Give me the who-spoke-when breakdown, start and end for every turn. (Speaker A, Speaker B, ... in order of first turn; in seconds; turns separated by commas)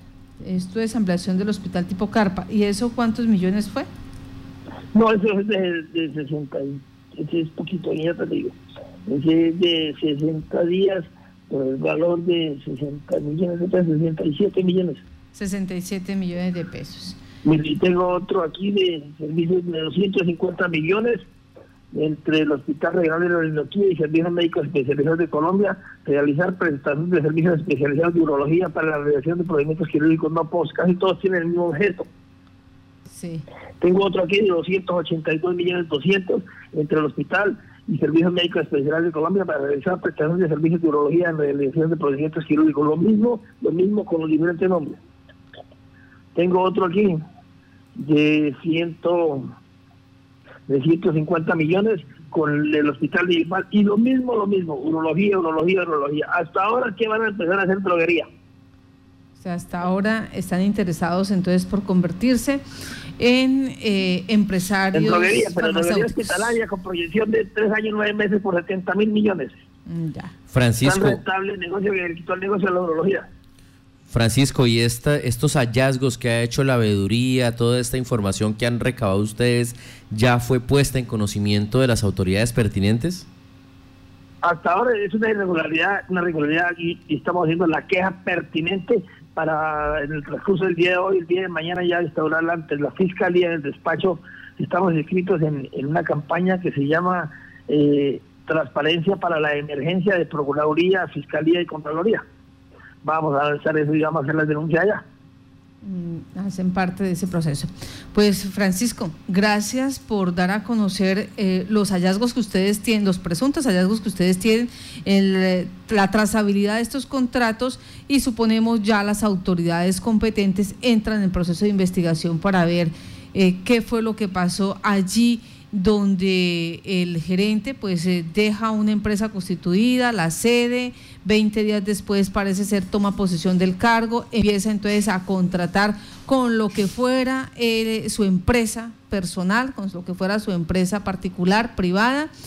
Speaker A: 0.4-3.9, Speaker B: 4.9-8.6, Speaker B: 9.1-15.0, Speaker A: 15.3-17.2, Speaker B: 17.4-21.2, Speaker B: 21.9-32.1, Speaker A: 33.1-33.4, Speaker B: 33.8-45.0, Speaker B: 46.3-47.2, Speaker B: 48.0-49.5, Speaker B: 50.7-58.3, Speaker A: 59.4-62.6, Speaker A: 63.2-66.6, Speaker B: 64.9-69.5, Speaker A: 69.9-70.3, Speaker C: 70.5-71.2, Speaker B: 70.8-73.2, Speaker C: 74.1-83.2, Speaker B: 84.4-102.2, Speaker B: 103.0-105.0, Speaker A: 105.8-142.3